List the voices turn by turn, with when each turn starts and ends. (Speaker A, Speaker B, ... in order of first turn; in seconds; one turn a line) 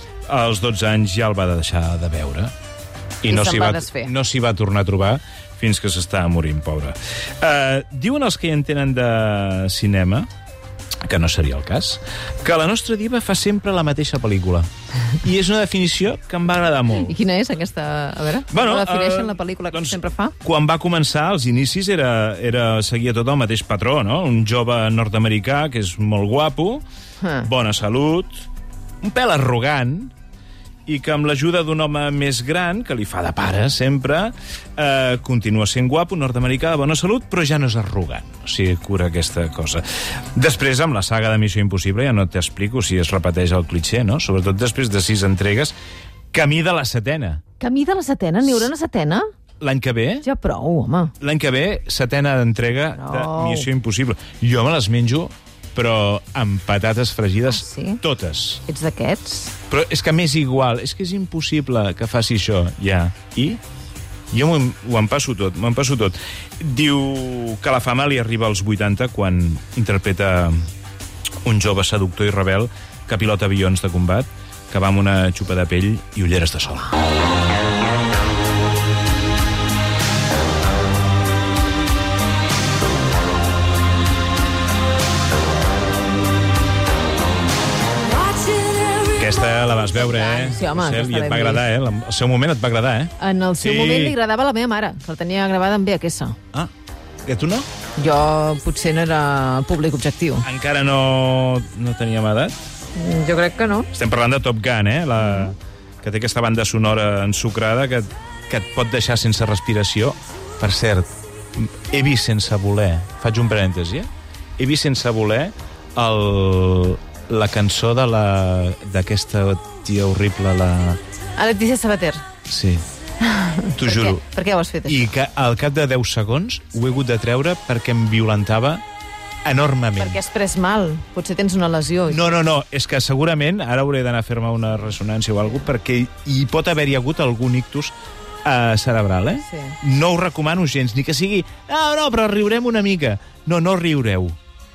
Speaker A: 0.3-2.5
Speaker A: 3.2-10.3
Speaker B: 3.3-4.1
Speaker A: 11.0-14.7
Speaker A: 15.2-17.1
Speaker B: 17.0-20.3
Speaker A: 18.5-26.8
Speaker B: 27.2-27.5
Speaker A: 27.4-28.5
Speaker A: 29.0-30.1
Speaker A: 30.9-39.8
Speaker A: 40.3-45.7
Speaker A: 46.3-47.4
Speaker B: 47.6-49.2
Speaker A: 49.6-50.2
Speaker B: 50.2-51.1
Speaker A: 51.2-58.6
Speaker B: 52.9-53.7
Speaker B: 57.5-58.0
Speaker B: 58.6-59.5
Speaker A: 59.7-63.6
Speaker A: 64.3-70.7
Speaker A: 71.4-77.0
Speaker B: 88.2-91.6
Speaker A: 89.1-94.2
Speaker B: 93.2-96.4
Speaker A: 97.2-97.7
Speaker B: 98.0-100.5
Speaker A: 100.4-102.5
Speaker B: 103.0-103.9
Speaker A: 103.9-121.0
Speaker B: 105.2-105.5
Speaker B: 121.4-122.2
Speaker A: 122.5-122.8
Speaker B: 123.2-125.1
Speaker A: 123.7-124.2
Speaker A: 124.8-128.8
Speaker A: 129.4-130.2
Speaker B: 130.0-132.3
Speaker A: 132.1-144.4
Speaker B: 139.5-139.8